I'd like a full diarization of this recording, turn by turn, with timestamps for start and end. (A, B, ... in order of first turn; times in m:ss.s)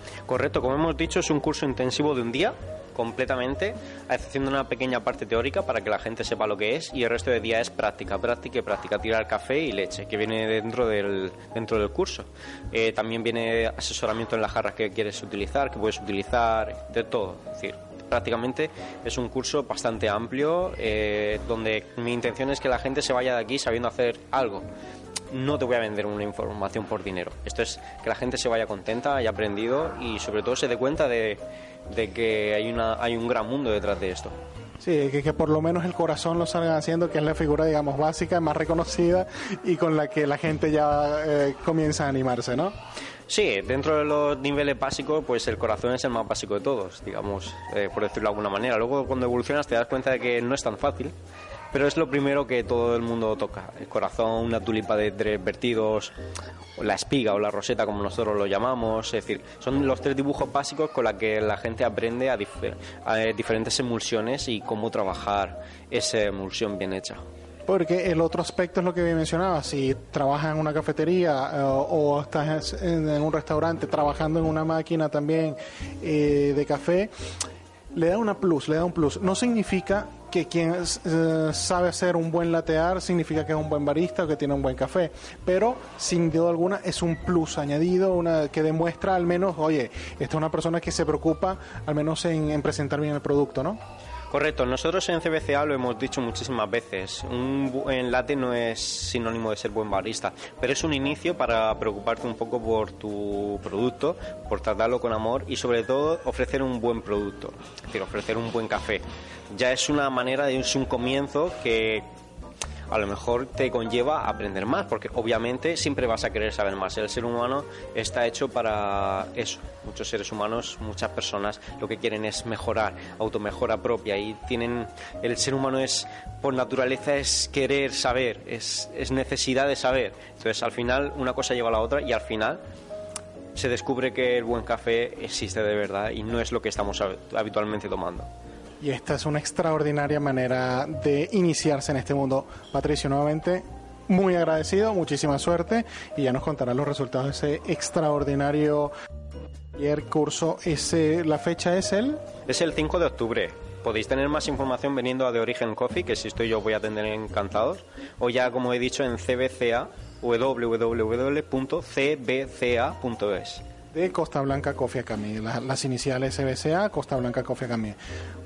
0:00.3-0:24.6 A
0:25.3-0:34.4 A
0:34.8-0:42.7 B
0:43.3-0:51.1 A
0:51.7-0:56.1 A
0:56.8-1:07.2 A
1:07.6-1:17.1 B
1:17.9-1:33.8 B
1:34.3-1:52.1 A
1:52.9-2:12.6 A
2:13.5-2:18.3 A
2:18.8-2:28.9 B
2:29.7-2:32.2 B
2:32.5-2:43.6 A
2:43.9-2:48.0 B